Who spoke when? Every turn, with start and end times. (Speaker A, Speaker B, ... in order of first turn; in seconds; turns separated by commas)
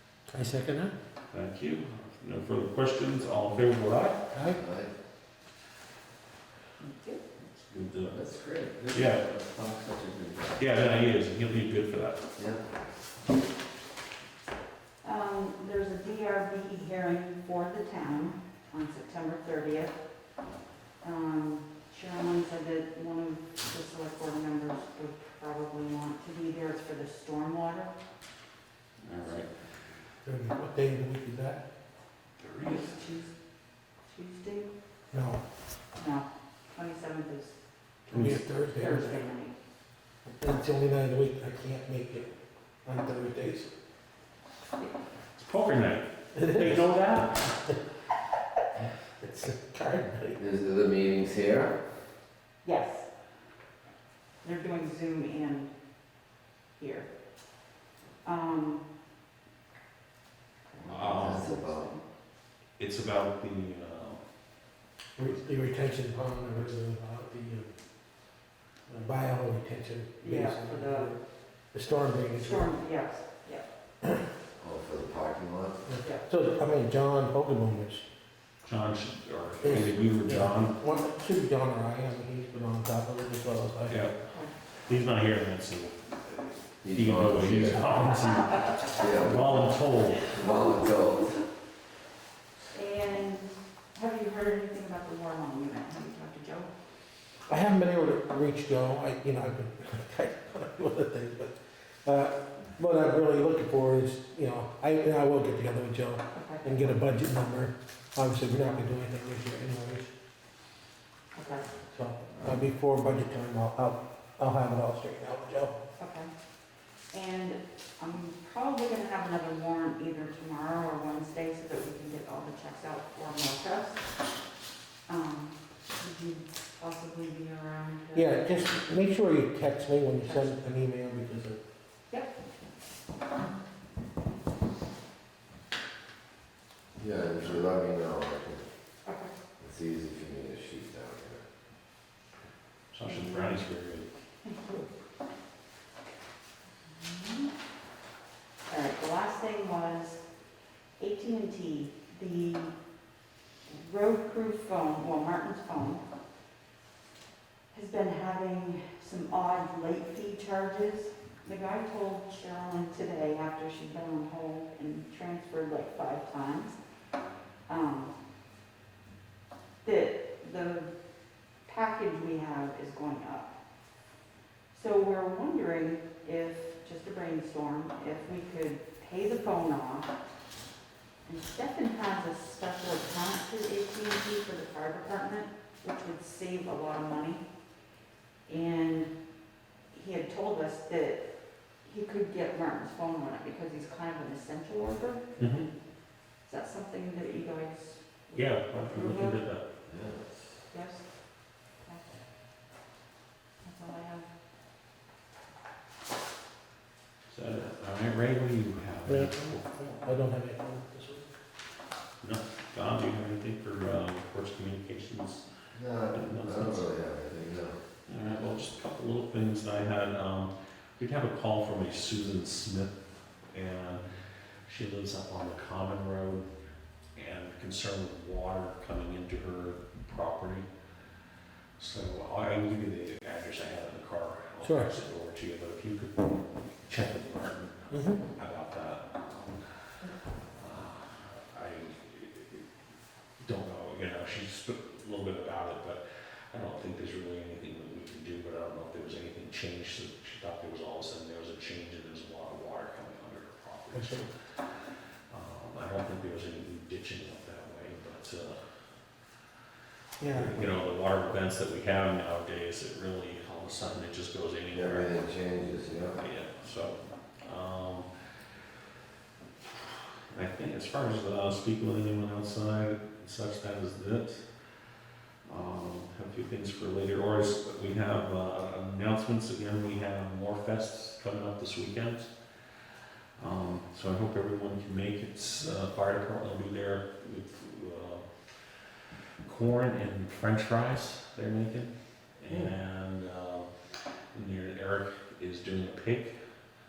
Speaker A: 0.3-0.9, Speaker B: 1.3-4.3, Speaker A: 4.3-4.6, Speaker C: 4.5-4.9, Speaker D: 6.8-7.2, Speaker B: 7.4-8.2, Speaker C: 8.1-10.6, Speaker B: 8.9-9.3, Speaker B: 10.6-12.3, Speaker C: 12.4-12.7, Speaker D: 15.0-19.9, Speaker D: 21.0-27.9, Speaker B: 29.0-29.5, Speaker A: 30.2-31.6, Speaker B: 32.4-33.0, Speaker D: 32.6-33.3, Speaker D: 34.0-34.7, Speaker A: 35.1-35.4, Speaker D: 36.0-37.5, Speaker D: 38.1-39.5, Speaker A: 38.1-39.2, Speaker B: 38.1-38.4, Speaker A: 40.4-43.7, Speaker B: 45.3-47.6, Speaker A: 46.4-46.8, Speaker A: 49.2-50.4, Speaker C: 50.4-51.8, Speaker D: 52.6-53.1, Speaker D: 54.4-55.7, Speaker D: 56.8-57.1, Speaker D: 58.2-58.8, Speaker D: 60.7-62.0, Speaker B: 60.9-61.5, Speaker C: 60.9-61.9, Speaker B: 62.8-64.2, Speaker A: 65.2-67.7, Speaker A: 68.9-71.2, Speaker D: 70.2-71.1, Speaker A: 71.7-72.7, Speaker D: 72.4-73.7, Speaker C: 74.6-75.9, Speaker A: 75.9-78.0, Speaker D: 76.0-76.3, Speaker B: 78.6-80.8, Speaker A: 79.6-84.0, Speaker B: 83.9-84.2, Speaker B: 84.8-90.3, Speaker C: 86.8-87.8, Speaker C: 88.9-91.4, Speaker D: 92.7-96.7, Speaker A: 97.5-110.1, Speaker D: 106.3-106.7, Speaker D: 111.3-111.7, Speaker A: 111.9-115.7, Speaker D: 116.0-116.3, Speaker D: 117.1-124.0, Speaker D: 125.1-128.8, Speaker A: 128.2-131.6, Speaker C: 137.0-138.7, Speaker D: 139.1-139.3, Speaker C: 139.6-141.4, Speaker B: 142.9-144.1, Speaker D: 143.0-143.6, Speaker D: 144.4-144.9, Speaker D: 146.9-147.5, Speaker D: 148.7-150.2, Speaker D: 151.0-152.8, Speaker D: 153.7-156.0, Speaker D: 157.7-166.8, Speaker D: 167.7-168.2, Speaker D: 169.8-170.9, Speaker D: 171.7-173.5, Speaker D: 174.7-180.1, Speaker D: 181.2-187.4, Speaker D: 188.5-189.1, Speaker D: 189.9-191.2, Speaker D: 191.8-195.2, Speaker B: 195.4-195.7, Speaker D: 196.5-199.4, Speaker B: 198.3-199.7, Speaker C: 199.9-200.3, Speaker D: 200.7-201.0, Speaker D: 201.8-202.2, Speaker D: 203.6-204.3, Speaker B: 207.3-209.7, Speaker A: 209.0-211.3, Speaker B: 212.2-215.5, Speaker C: 215.7-217.8, Speaker B: 216.1-216.8, Speaker B: 218.1-222.9, Speaker B: 223.5-224.0, Speaker B: 224.7-226.5, Speaker B: 227.2-230.7, Speaker B: 231.8-242.7, Speaker A: 234.6-234.9, Speaker A: 237.9-238.2, Speaker B: 243.4-254.2, Speaker A: 253.9-254.3, Speaker B: 255.3-258.6, Speaker A: 260.2-260.7, Speaker B: 260.3-265.2, Speaker C: 264.7-266.2, Speaker B: 266.2-268.1, Speaker B: 269.6-274.5, Speaker B: 275.5-282.3, Speaker B: 283.4-288.2, Speaker B: 289.4-293.7, Speaker B: 294.3-296.3